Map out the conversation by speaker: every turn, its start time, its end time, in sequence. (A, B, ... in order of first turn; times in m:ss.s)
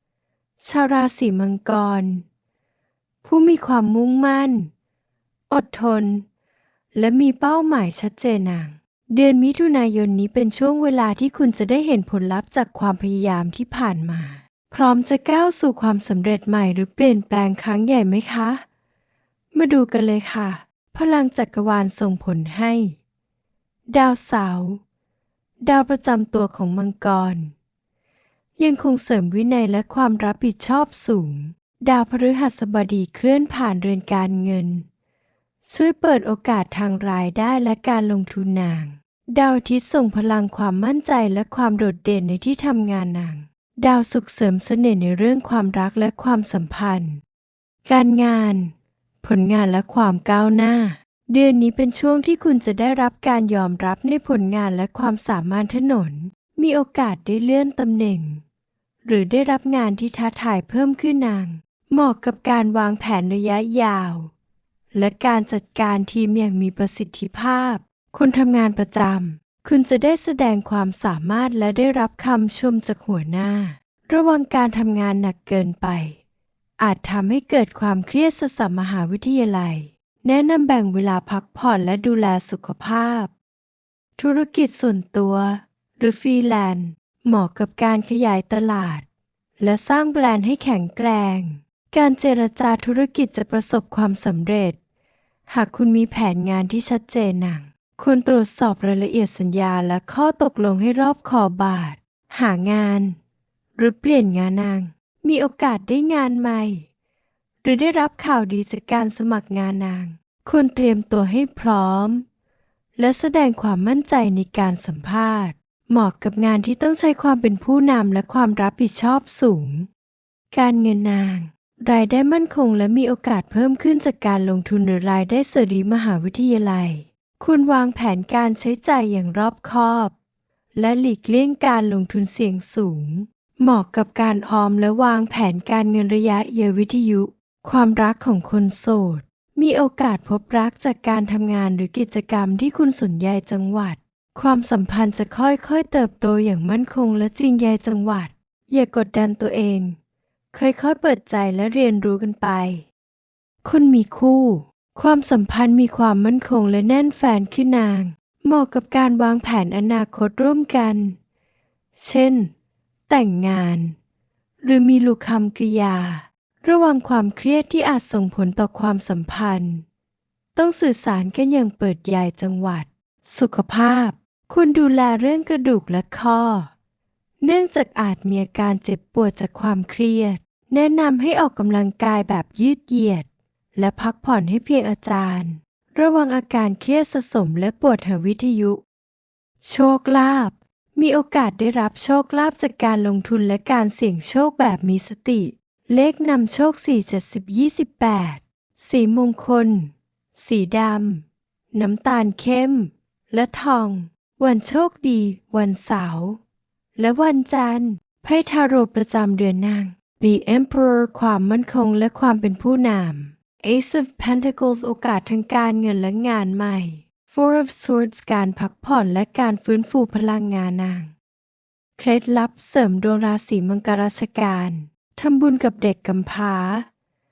0:00.6-0:02.2 A
0:03.2-0:04.7 A
0:05.5-0:06.2 A
0:06.9-0:18.6 A
0:19.5-0:22.9 A
0:23.9-0:24.8 A
0:25.6-0:27.5 A
0:28.6-0:34.8 A
0:35.6-0:47.2 A
0:47.8-0:58.4 A
0:59.0-1:04.3 A
1:04.9-1:16.2 A
1:16.8-1:23.3 A
1:24.2-1:29.0 A
1:29.6-1:34.8 A
1:35.5-1:43.2 A
1:43.8-1:46.8 A
1:47.6-1:52.2 A
1:53.0-1:59.9 A
2:00.5-2:10.1 A
2:10.7-2:30.0 A
2:30.5-2:32.8 A
2:33.6-2:41.2 A
2:42.0-2:42.5 A
2:43.1-2:43.9 A
2:44.6-2:49.8 A
2:50.5-2:56.7 A
2:57.4-3:08.8 A
3:09.6-3:26.4 A
3:27.0-3:41.1 A
3:42.0-3:46.8 A